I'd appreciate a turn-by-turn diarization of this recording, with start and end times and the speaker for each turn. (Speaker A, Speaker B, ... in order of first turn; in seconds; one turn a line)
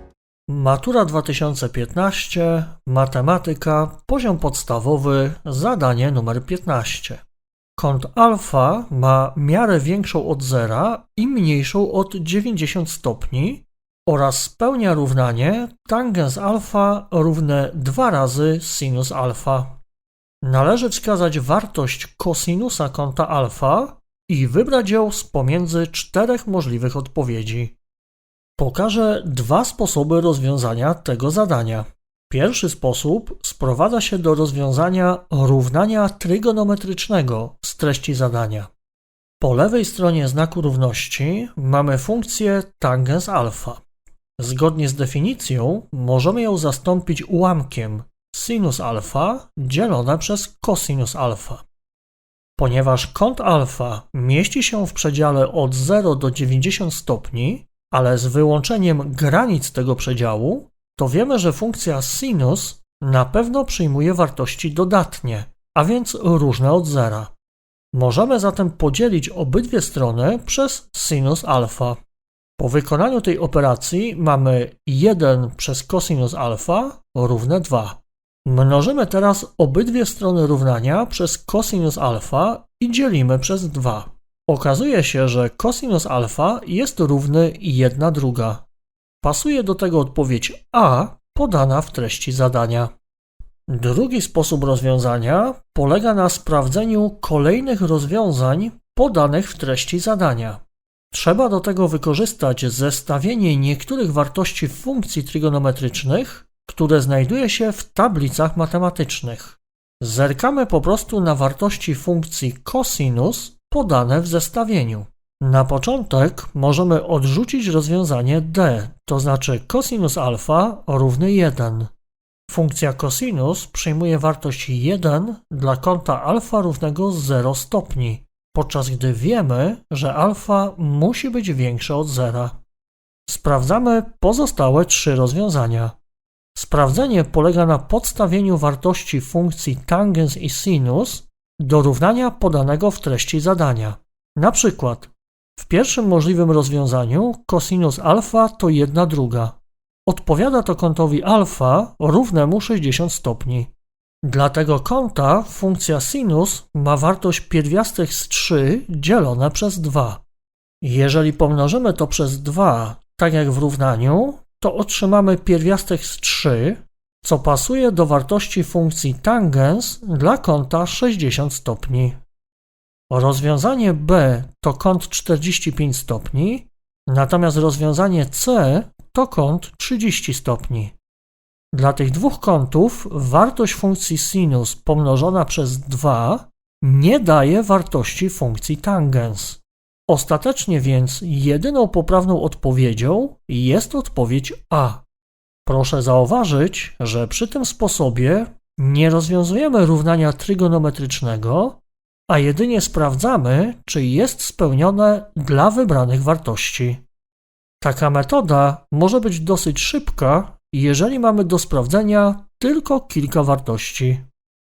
Speaker A: 0.5-7.2
Speaker A: 7.8-19.8
Speaker A: 20.4-27.8
Speaker A: 28.6-38.7
Speaker A: 39.4-43.8
Speaker A: 44.4-51.6
Speaker A: 52.6-67.3
Speaker A: 67.9-72.0
Speaker A: 72.6-88.6
Speaker A: 89.2-92.9
Speaker A: 93.7-100.6
Speaker A: 101.1-121.9
Speaker A: 122.5-132.6
Speaker A: 133.3-135.9
Speaker A: 136.6-149.6
Speaker A: 150.1-153.7
Speaker A: 154.2-160.2
Speaker A: 160.8-172.2
Speaker A: 173.1-180.9
Speaker A: 181.7-195.0
Speaker A: 195.7-207.0
Speaker A: 207.8-214.2